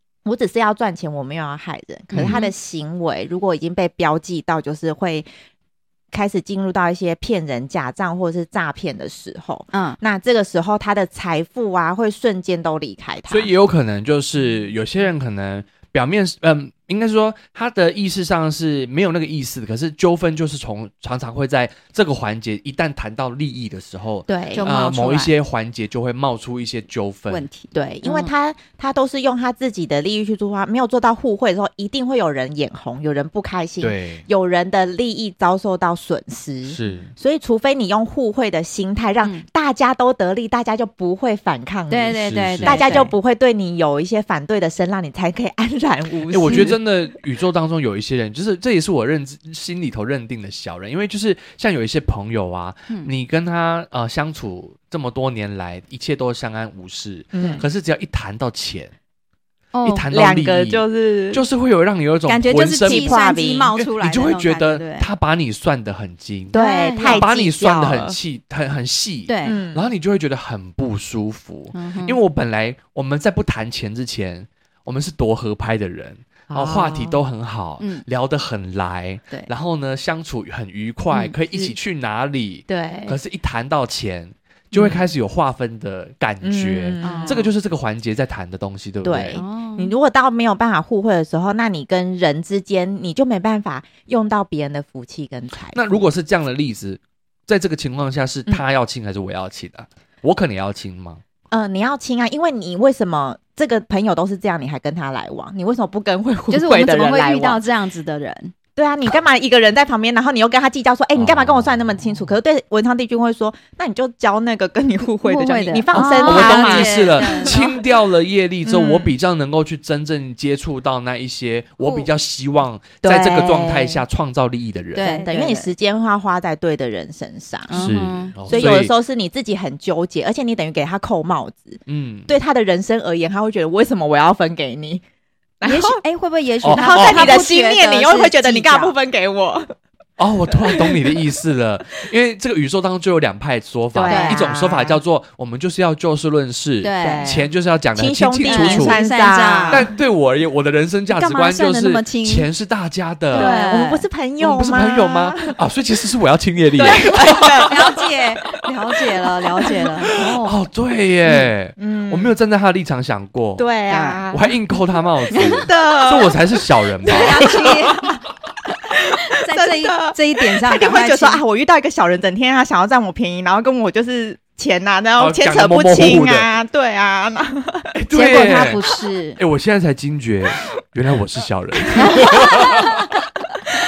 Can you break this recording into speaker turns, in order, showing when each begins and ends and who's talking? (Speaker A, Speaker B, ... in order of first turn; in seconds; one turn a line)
Speaker A: 0.2-5.3
Speaker B: 2.1-2.4
Speaker C: 2.2-2.5
Speaker A: 6.1-13.5
Speaker C: 9.7-10.0
Speaker B: 13.3-27.4
Speaker A: 24.3-24.7
Speaker C: 24.5-25.3
Speaker C: 27.3-28.3
Speaker A: 27.7-46.8
Speaker B: 33.8-34.2
Speaker B: 36.7-37.1
Speaker C: 41.9-43.1
Speaker B: 42.2-43.1
Speaker B: 46.3-58.9
Speaker C: 46.5-46.7
Speaker A: 57.3-57.6
Speaker C: 57.4-57.6
Speaker C: 59.7-60.1
Speaker B: 59.9-63.2
Speaker A: 60.1-61.4
Speaker C: 62.3-65.1
Speaker A: 62.8-63.7
Speaker B: 63.8-89.4
Speaker A: 66.5-68.2
Speaker C: 66.5-67.3
Speaker C: 69.3-69.6
Speaker A: 69.4-69.8
Speaker C: 71.7-72.2
Speaker A: 76.5-77.2
Speaker C: 77.8-78.0
Speaker A: 82.7-83.2
Speaker A: 84.7-85.0
Speaker A: 86.4-87.5
Speaker C: 87.0-87.4
Speaker A: 89.0-96.0
Speaker C: 89.3-89.9
Speaker B: 95.7-101.2
Speaker A: 101.5-107.6
Speaker C: 106.5-108.5
Speaker A: 108.8-117.8
Speaker B: 111.2-111.7
Speaker C: 115.2-117.6
Speaker B: 116.0-125.1
Speaker A: 118.6-119.1
Speaker A: 123.0-124.0
Speaker C: 125.0-125.7
Speaker A: 125.0-135.0
Speaker C: 127.7-128.7
Speaker B: 127.7-128.9
Speaker B: 131.9-132.3
Speaker A: 135.6-136.0
Speaker C: 135.6-138.9
Speaker B: 136.6-137.4
Speaker A: 136.7-139.8
Speaker B: 140.2-149.0
Speaker A: 140.5-141.2
Speaker A: 143.9-145.0
Speaker C: 144.1-144.5
Speaker C: 146.8-147.3
Speaker A: 147.0-149.9
Speaker C: 148.4-149.9
Speaker B: 149.7-153.5
Speaker C: 151.1-152.5
Speaker A: 153.3-155.6
Speaker C: 153.3-154.1
Speaker B: 154.4-157.7
Speaker A: 156.8-157.8
Speaker C: 157.0-160.6
Speaker B: 160.2-163.7
Speaker A: 161.3-162.3
Speaker A: 163.6-164.6
Speaker C: 163.9-164.2
Speaker B: 164.3-168.0
Speaker C: 165.3-165.7
Speaker A: 165.4-166.4
Speaker A: 167.0-168.0
Speaker C: 167.1-168.1
Speaker A: 168.9-178.7
Speaker C: 169.2-171.4
Speaker B: 175.2-176.5
Speaker B: 177.9-178.8
Speaker C: 178.1-179.4
Speaker B: 179.4-183.1
Speaker A: 181.8-182.7
Speaker C: 182.0-183.0